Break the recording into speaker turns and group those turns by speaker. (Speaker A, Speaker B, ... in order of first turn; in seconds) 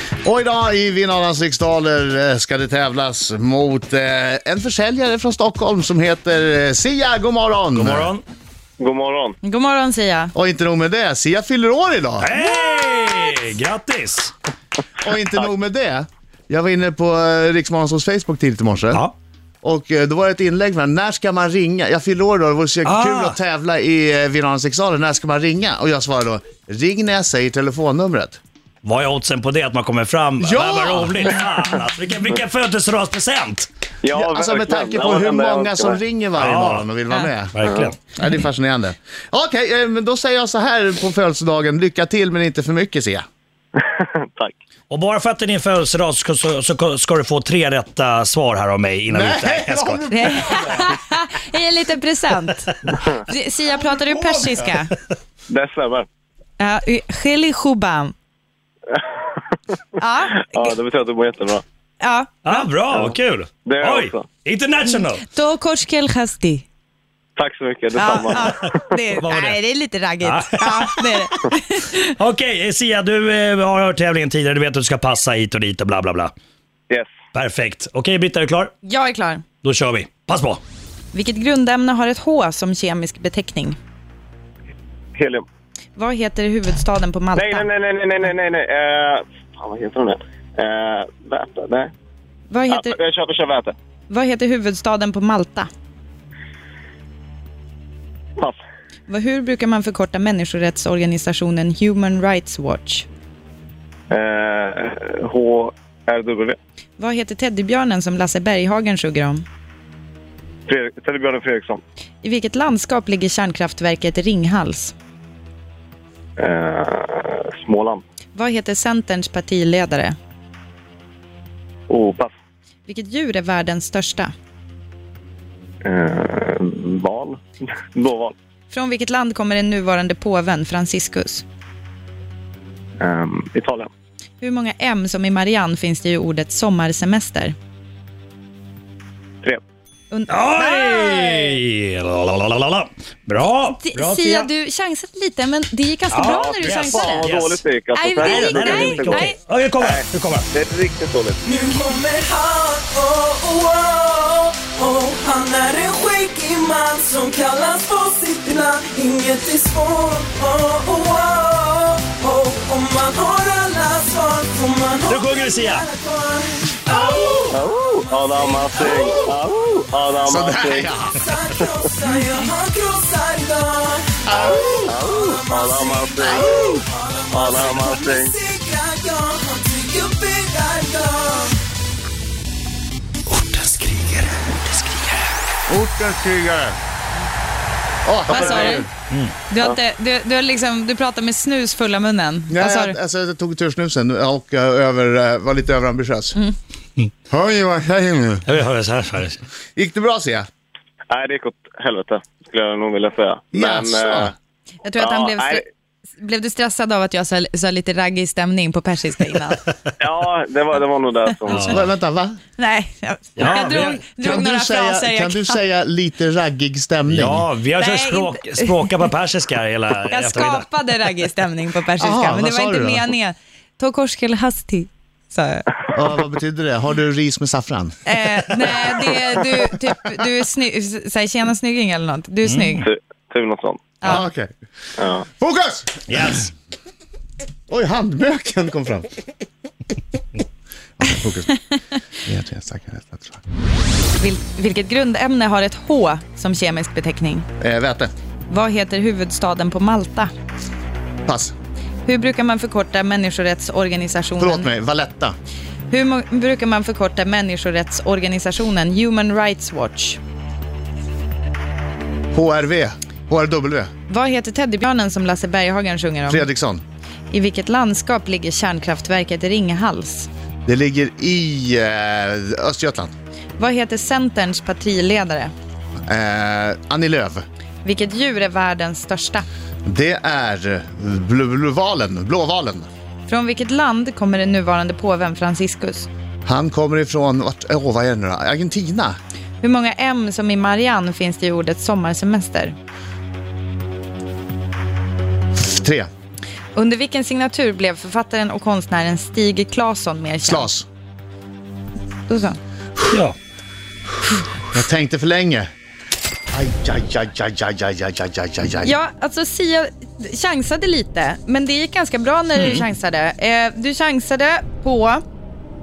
Speaker A: 0.2-8.1, 10.3-12.3, 15.0-19.1, 19.6-28.4, 30.4-31.4, 34.1-37.5, 38.1-43.2, 49.1-50.8, 170.3-171.1, 174.2-174.9, 176.2-176.8, 185.7-186.8, 188.0-188.9, 192.5-196.3, 197.3-198.4, 199.8-200.5, 203.5-204.3, 211.6-212.4, 214.0-217.5, 222.0-223.1, 225.9-228.6, 234.0-234.5, 235.3-236.5, 237.7-239.1, 241.0-241.5, 242.2-243.4, 247.6-248.1, 251.2-251.5, 254.4-255.3, 262.3-263.9, 266.3-266.8, 270.6-273.1, 276.1-277.4, 279.9-282.9, 286.4-289.1, 295.6-296.1, 300.4-300.9, 304.7-305.7, 306.5-308.9
Speaker B: 7.7-8.2, 12.2-14.3, 22.8-23.4, 28.8-33.7, 36.4-36.9, 37.5-38.0, 44.9-50.0, 62.4-65.2, 69.2-69.6, 70.2-71.0, 72.2-76.3, 77.3-78.7, 79.6-80.6, 140.3-144.5, 146.1-147.6, 148.2-150.5, 165.1-165.8, 183.3-185.2, 189.1-189.3, 198.4-199.4, 213.4-214.0, 217.1-220.7, 232.4-232.8, 236.1-236.5, 303.1-303.4
Speaker C: 8.8-9.3, 34.0-36.0, 37.6-37.9, 43.8-44.5, 55.5-56.1, 58.9-59.4, 60.5-61.6, 62.9-64.2, 67.3-68.8, 85.1-85.4, 87.3-91.9, 92.7-93.7, 104.1-106.6, 110.7-111.8, 116.4-118.0, 121.9-122.3, 125.8-128.3, 133.0-133.9, 146.2-151.4, 167.5-170.9, 174.8-176.4, 177.3-178.3, 201.1-204.3, 205.0-205.6, 210.0-211.8, 232.8-233.9, 235.0-235.2
Speaker D: 9.4-10.3, 50.1-54.9, 56.6-58.1, 60.0-60.8, 62.0-62.6, 65.2-66.7, 68.0-72.1, 78.8-79.4, 81.1-83.8, 86.0-87.7, 92.5-93.0, 94.1-95.7, 99.1-103.0, 107.0-109.4, 112.2-114.9, 118.3-120.2, 122.9-124.3, 128.7-131.4, 134.4-137.5, 140.1-141.5, 143.4-147.3, 147.9-149.4, 188.3-188.9, 189.5-193.0, 204.8-205.6, 206.2-209.6, 212.6-215.6, 217.8-219.1, 220.1-225.7, 228.0-232.9, 244.2-247.5, 248.5-250.3, 252.1-254.7, 255.9-260.2, 264.1-266.5, 267.3-270.3, 273.6-275.5, 277.8-279.4, 283.3-286.1, 289.6-292.7, 296.7-300.7, 302.3-302.6, 308.8-315.2
Speaker E: 151.4-169.2, 170.1-170.4, 171.1-181.6